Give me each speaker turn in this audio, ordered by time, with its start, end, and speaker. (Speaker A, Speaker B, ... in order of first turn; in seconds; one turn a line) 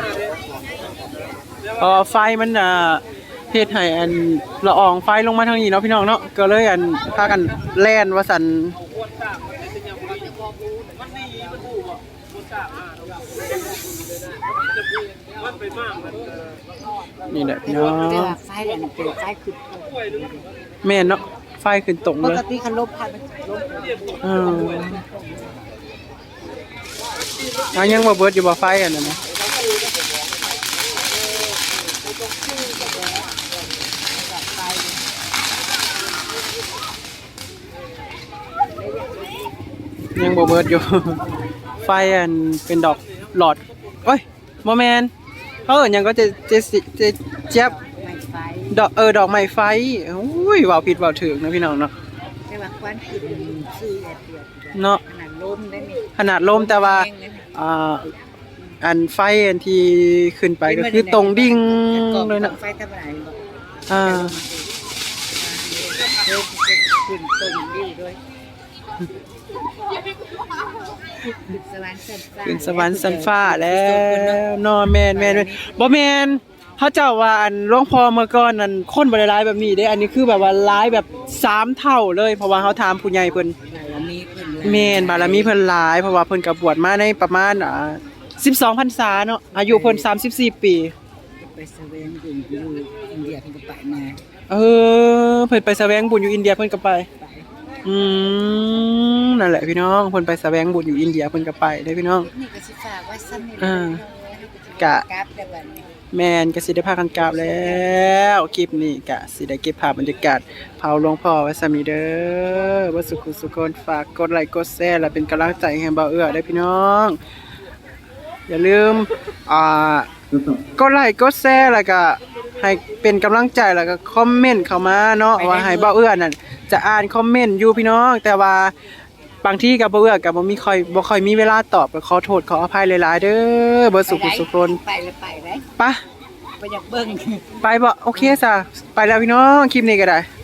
Speaker A: 1.8-8.8
Speaker A: 17.3-18.4
Speaker B: 17.6-20.5
Speaker A: 20.8-22.4
Speaker B: 22.2-25.3
Speaker A: 24.2-25.0
Speaker A: 27.7-29.2
Speaker B: 34.3-35.0
Speaker A: 40.1-41.2
Speaker A: 41.8-45.1
Speaker A: 45.7-47.7
Speaker B: 47.5-48.8
Speaker A: 48.7-51.9
Speaker B: 52.5-57.4
Speaker A: 54.7-55.0
Speaker A: 56.2-58.1
Speaker A: 58.8-62.6
Speaker B: 60.6-63.4
Speaker A: 63.9-64.4
Speaker B: 63.9-64.7
Speaker B: 65.3-68.2
Speaker B: 71.4-74.5
Speaker A: 72.4-83.6
Speaker B: 75.1-75.8
Speaker B: 83.5-85.5
Speaker A: 84.6-90.9
Speaker B: 89.5-90.1
Speaker B: 91.4-94.2
Speaker A: 94.5-97.1
Speaker B: 97.2-97.5
Speaker A: 97.8-102.3
Speaker B: 102.3-105.9
Speaker A: 103.6-104.0
Speaker A: 104.8-105.0
Speaker A: 106.1-117.2
Speaker A: 118.5-120.1
Speaker A: 120.8-128.7
Speaker B: 125.4-125.9
Speaker A: 129.4-134.8
Speaker B: 134.1-135.6
Speaker B: 136.6-137.5
Speaker A: 137.6-140.3
Speaker B: 138.1-138.4